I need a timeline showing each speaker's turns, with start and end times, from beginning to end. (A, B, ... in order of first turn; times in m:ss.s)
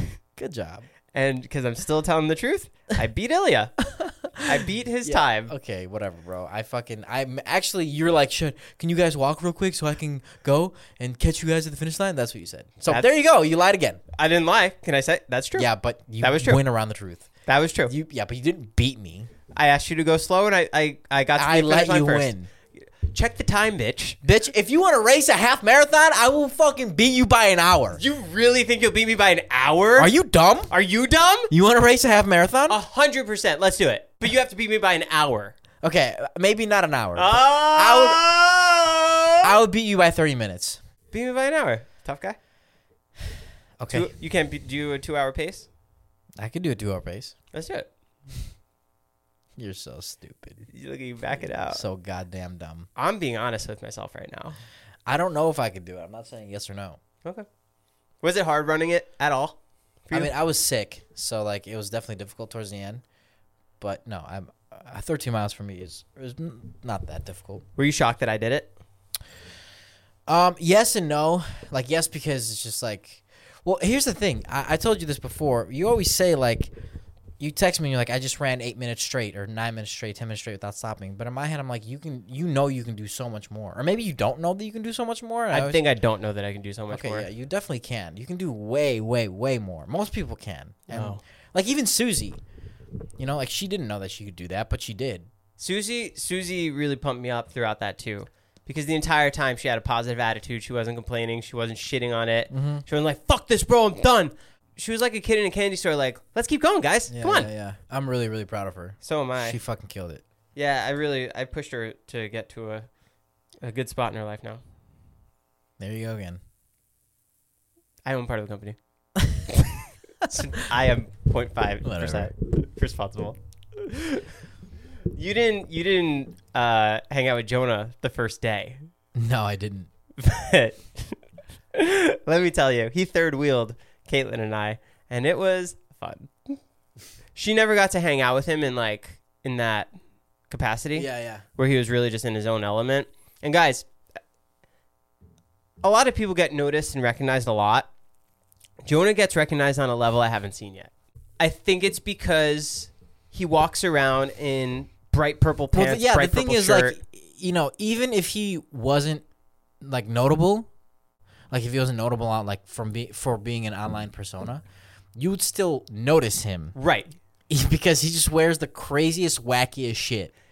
0:00.3-0:00.9 A
0:01.1-0:03.8 B
0:03.9-0:14.0 A
0:04.4-0:05.5 B
0:12.8-0:13.1 B
0:14.2-0:16.6 B
0:15.5-0:17.3 A
0:17.4-0:17.9 B
0:17.8-0:19.3 A
0:19.5-0:22.3 B
0:21.3-0:22.5 A
0:23.1-0:24.2 B
0:24.2-0:28.0 A
0:27.9-0:30.1 B
0:30.0-0:30.7 A
0:30.7-0:31.5 B
0:31.5-0:32.8 A
0:32.7-0:35.5 B
0:35.8-0:38.2 A
0:37.1-0:39.6 B
0:39.4-0:40.8 A
0:41.1-0:42.4 B
0:43.8-0:44.1 A
0:43.9-0:45.7 B
0:46.4-0:47.3 A
0:47.5-0:47.9 B
0:49.6-0:50.7 A
0:50.7-0:51.8 B
0:51.7-0:52.9 A
0:53.0-0:54.6 B
0:55.0-0:57.0 A
0:58.2-1:00.3 B
1:00.1-1:03.0 A
1:03.8-1:07.6 A
1:07.8-1:08.7 B
1:10.3-1:16.7 A
1:17.4-1:25.8 A
1:25.5-1:27.3 B
1:26.9-1:32.4 A
1:30.9-1:31.2 B
1:33.2-1:35.3 A
1:35.6-1:47.5 B
1:42.5-1:42.8 A
1:47.1-1:50.2 A
1:49.0-1:49.6 B
1:50.5-1:52.9 B
1:53.6-1:54.6 B
1:55.8-1:56.4 A
1:58.0-1:58.8 B
2:00.2-2:04.2 B
2:01.8-2:02.3 A
2:05.1-2:08.8 B
2:09.1-2:09.9 A
2:10.2-2:11.2 B
2:11.7-2:16.6 B
2:17.3-2:19.9 B
2:20.5-2:23.9 B
2:20.9-2:21.4 A
2:25.8-2:27.9 B
2:28.8-2:37.0 B
2:35.7-2:39.2 A
2:39.8-2:40.7 A
2:41.5-2:44.6 A
2:45.2-2:46.8 A
2:46.8-2:47.1 B
2:47.5-2:50.3 A